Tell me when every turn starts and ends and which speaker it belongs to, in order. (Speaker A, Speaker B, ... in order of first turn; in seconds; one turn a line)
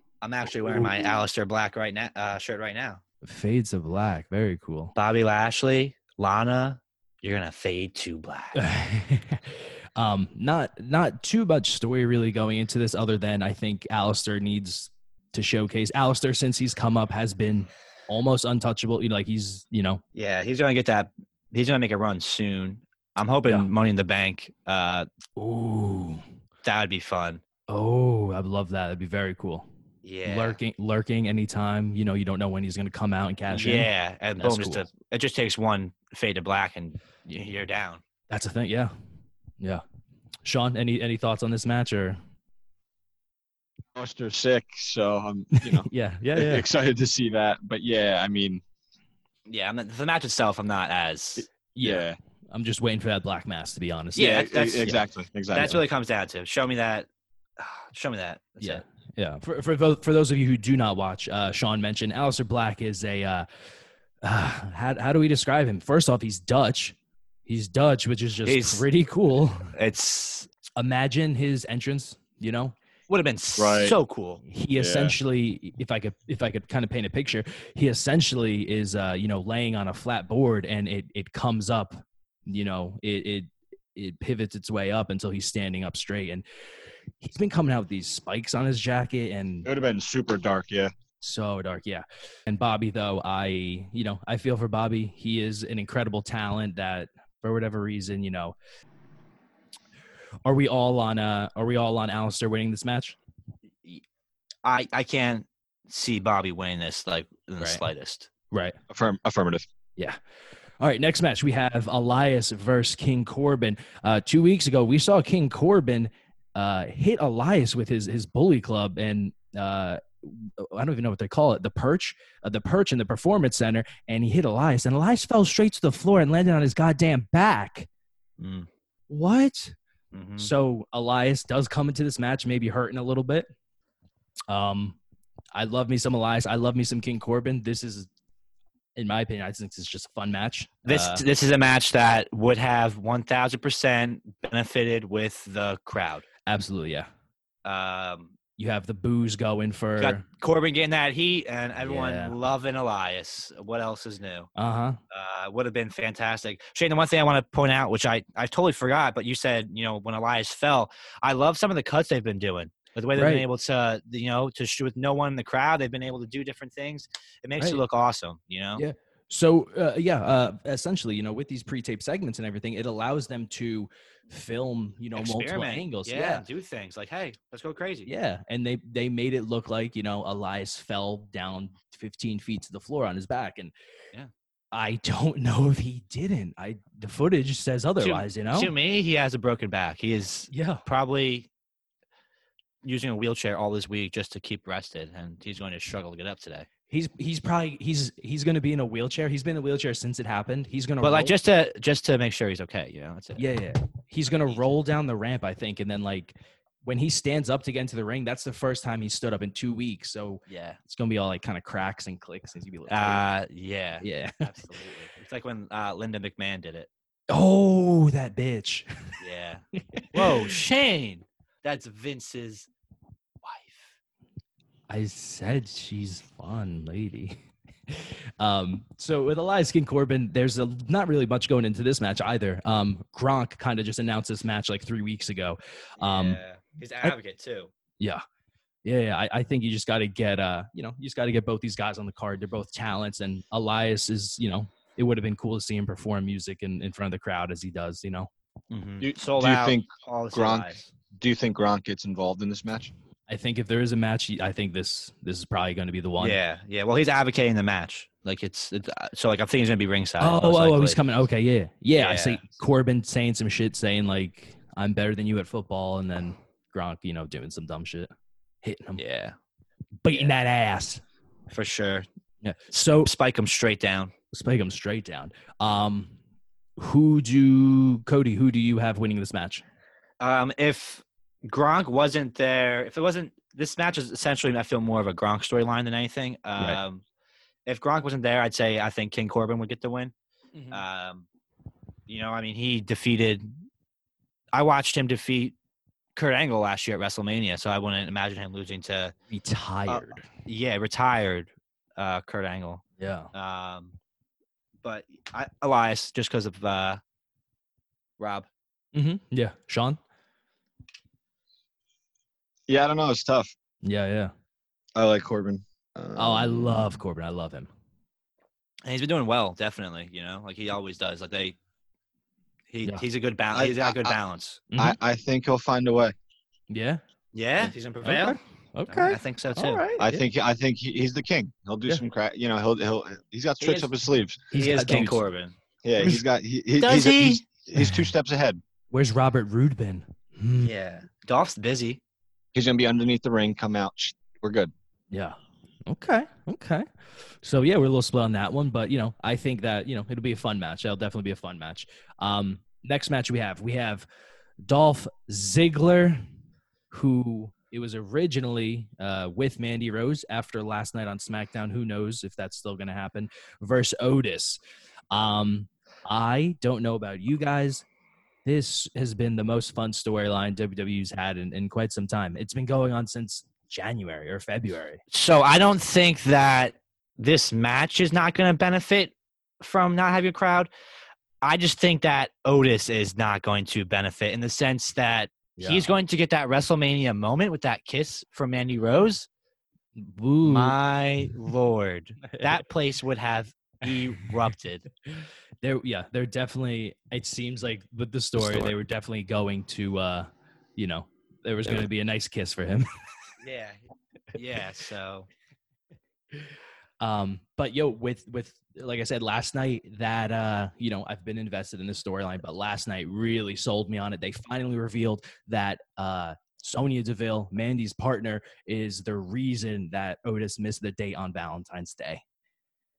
Speaker A: 0.2-3.0
Speaker B: 3.2-4.9
Speaker A: 5.0-8.6
Speaker B: 8.5-20.0
Speaker A: 20.1-25.1
Speaker B: 25.4-26.2
Speaker A: 26.6-27.4
Speaker B: 27.7-29.7
Speaker A: 30.0-30.6
Speaker B: 30.2-34.9
Speaker A: 33.5-38.0
Speaker B: 38.3-38.9
Speaker B: 40.5-42.2
Speaker C: 44.0-48.6
Speaker B: 45.5-46.7
Speaker A: 49.5-51.5
Speaker B: 51.8-54.9
Speaker C: 51.8-52.2
Speaker A: 54.2-55.0
Speaker C: 54.2-55.8
Speaker A: 55.5-58.8
Speaker B: 58.6-63.5
Speaker B: 64.2-69.7
Speaker A: 68.5-68.9
Speaker A: 69.7-70.5
Speaker B: 70.8-72.7
Speaker A: 73.1-74.4
Speaker C: 73.6-74.0
Speaker B: 74.5-86.4
Speaker C: 74.8-75.2
Speaker B: 87.2-89.7
Speaker C: 89.7-90.9
Speaker B: 91.2-98.5
Speaker B: 100.5-103.2
Speaker A: 104.6-108.3
Speaker C: 108.9-109.6
Speaker B: 110.8-127.9
Speaker A: 128.4-128.7
Speaker B: 129.1-129.8
Speaker A: 130.1-130.5
Speaker B: 130.4-133.5
Speaker B: 134.5-135.0
Speaker B: 135.5-138.1
Speaker B: 139.0-141.2
Speaker A: 140.9-146.2
Speaker B: 146.5-147.1
Speaker A: 147.7-148.3
Speaker B: 148.6-150.2
Speaker A: 150.0-154.5
Speaker B: 151.8-152.3
Speaker B: 154.6-155.0
Speaker A: 155.1-168.8
Speaker B: 163.2-163.4
Speaker B: 168.8-176.4
Speaker A: 175.2-178.1
Speaker B: 178.1-183.7
Speaker B: 184.7-188.7
Speaker A: 188.0-191.5
Speaker B: 190.5-190.8
Speaker A: 192.8-196.7
Speaker B: 196.9-201.3
Speaker A: 201.0-203.4
Speaker B: 203.4-213.2
Speaker A: 204.2-204.7
Speaker A: 210.5-210.8
Speaker A: 212.9-216.9
Speaker B: 214.0-214.5
Speaker B: 217.3-219.2
Speaker A: 219.2-222.7
Speaker B: 219.9-220.6
Speaker A: 223.4-224.0
Speaker B: 224.9-227.4
Speaker B: 227.9-236.4
Speaker A: 236.0-237.7
Speaker B: 238.8-248.3
Speaker A: 248.7-250.9
Speaker C: 249.0-252.9
Speaker B: 253.3-256.4
Speaker A: 256.2-261.0
Speaker B: 260.2-268.1
Speaker A: 262.0-262.4
Speaker B: 268.6-269.0
Speaker A: 269.0-269.4
Speaker B: 270.0-271.0
Speaker A: 271.5-272.1
Speaker B: 272.4-273.1
Speaker A: 273.0-274.1
Speaker B: 274.3-276.1
Speaker B: 276.8-279.6
Speaker A: 280.2-287.0
Speaker A: 287.7-291.3
Speaker A: 292.1-293.5
Speaker A: 294.5-295.6
Speaker A: 296.2-299.1
Speaker B: 299.3-300.2
Speaker A: 299.9-302.8
Speaker B: 303.0-303.3
Speaker A: 303.3-303.9
Speaker A: 304.8-307.0
Speaker A: 308.2-308.5
Speaker B: 308.9-310.0
Speaker C: 312.7-313.5
Speaker B: 313.8-314.3
Speaker C: 314.9-316.9
Speaker B: 316.2-317.7
Speaker A: 318.9-321.6
Speaker A: 322.7-324.6
Speaker C: 323.5-324.2
Speaker B: 324.7-325.0
Speaker C: 324.8-326.1
Speaker B: 326.7-327.0
Speaker A: 327.3-328.4
Speaker B: 328.0-330.3
Speaker A: 328.9-329.9
Speaker C: 330.0-334.4
Speaker A: 333.6-333.9
Speaker B: 334.5-335.2
Speaker A: 334.5-335.5
Speaker C: 335.8-338.6
Speaker A: 336.8-337.4
Speaker B: 337.8-338.1
Speaker B: 338.9-340.7
Speaker A: 340.6-342.0
Speaker C: 342.5-344.7
Speaker B: 345.1-346.9
Speaker B: 347.4-354.1
Speaker B: 354.7-356.2
Speaker B: 356.9-364.6
Speaker B: 365.1-367.9
Speaker B: 368.4-375.0
Speaker A: 375.1-380.7
Speaker A: 381.4-389.3
Speaker B: 385.6-385.9
Speaker B: 390.0-390.8
Speaker A: 390.4-394.9
Speaker B: 395.1-402.9
Speaker A: 398.4-398.7
Speaker A: 403.4-403.8
Speaker A: 404.3-405.3
Speaker B: 407.0-422.2